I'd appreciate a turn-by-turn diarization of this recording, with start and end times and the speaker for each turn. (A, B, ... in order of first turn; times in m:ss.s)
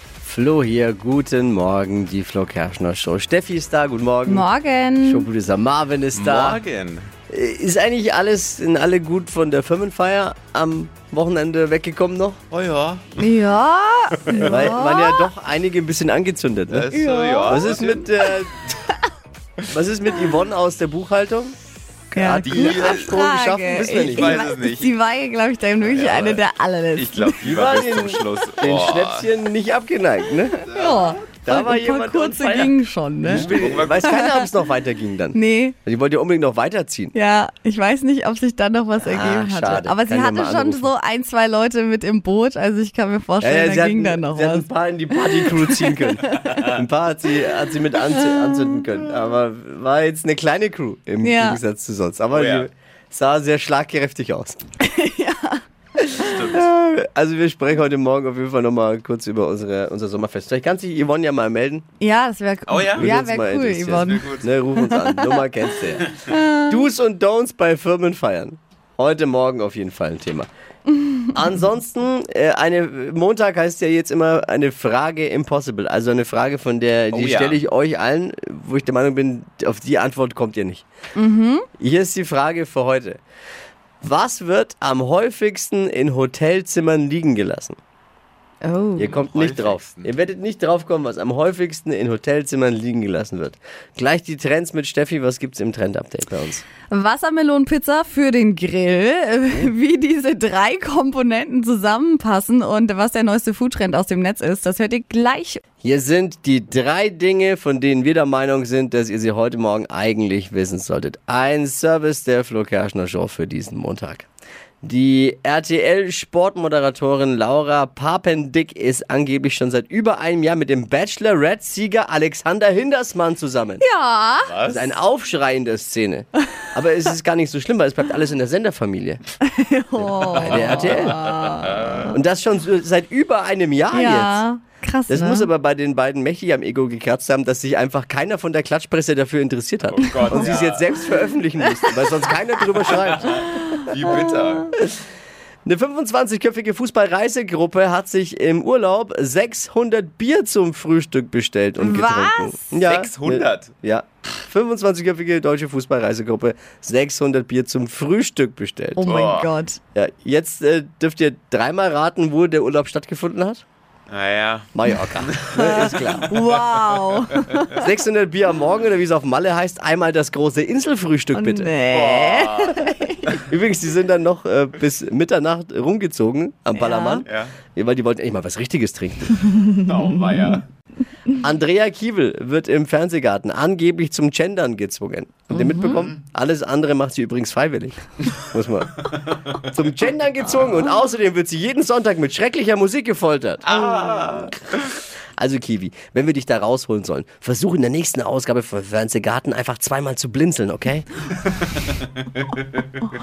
0:00.2-0:04.5 A
0:04.2-0:05.3 B
0:05.0-0:06.6 A
0:06.1-0:07.1 C
0:07.3-0:12.4 A
0:12.5-0:13.2 C
0:13.2-0:15.3 B
0:14.4-0:16.9 A
0:16.7-0:18.0 C
0:16.9-0:17.6 B
0:17.5-0:18.5 A
0:19.7-0:21.5 A
0:22.1-0:24.4 A
0:22.1-0:27.4 B
0:22.4-0:23.1 C
0:24.2-0:24.9 C
0:25.8-0:26.4 C
0:26.9-0:29.3 C
0:27.4-0:30.6 A
0:30.6-0:34.5 B
0:31.4-0:37.1 A
0:33.4-0:34.0 C
0:35.3-0:35.8 B
0:37.1-0:46.8 B
0:39.0-0:40.9 A
0:43.4-0:54.6 A
0:48.1-0:48.8 B
0:51.2-0:51.6 B
0:52.3-0:52.7 C
0:54.8-0:55.6 B
0:56.2-0:56.6 C
0:56.4-1:01.8 A
1:02.0-1:06.9 B
1:02.6-1:03.1 C
1:02.9-1:06.1 A
1:04.0-1:04.5 C
1:06.7-1:10.5 A
1:10.9-1:11.3 B
1:11.3-1:20.8 A
1:17.1-1:17.6 C
1:21.1-1:21.6 B
1:21.8-1:23.2 A
1:24.0-1:27.8 A
1:28.6-1:29.2 B
1:29.0-1:36.6 A
1:29.1-1:30.1 C
1:36.9-1:45.6 B
1:45.8-1:54.3 A
1:54.8-2:03.8 A
2:03.8-2:04.5 B
2:04.4-2:04.9 C
2:04.6-2:09.2 A
2:09.4-2:12.2 B
2:10.0-2:11.2 A
2:10.5-2:11.9 C
2:12.1-2:14.4 A
2:13.9-2:15.5 B
2:15.1-2:23.3 A
2:19.9-2:20.8 C
2:20.3-2:21.2 B
2:23.0-2:24.7 C
2:23.5-2:24.6 B
2:25.6-2:39.1 A
2:31.8-2:32.7 B
2:32.8-2:33.7 C
2:39.0-2:39.8 B
2:39.0-2:39.5 C
2:39.9-2:43.6 A
2:44.1-2:44.7 C
2:44.7-2:46.4 A
2:45.5-2:47.9 B
2:47.7-2:51.7 A
2:51.3-2:53.3 B
2:51.9-2:52.8 C
2:53.4-2:59.4 A
2:56.7-2:57.2 B
2:57.2-2:57.6 C
2:59.8-3:00.6 C
3:01.4-3:09.0 A
3:05.5-3:06.0 B
3:09.7-3:13.6 A
3:13.6-3:14.8 C
3:13.7-3:14.5 B
3:15.4-3:21.1 A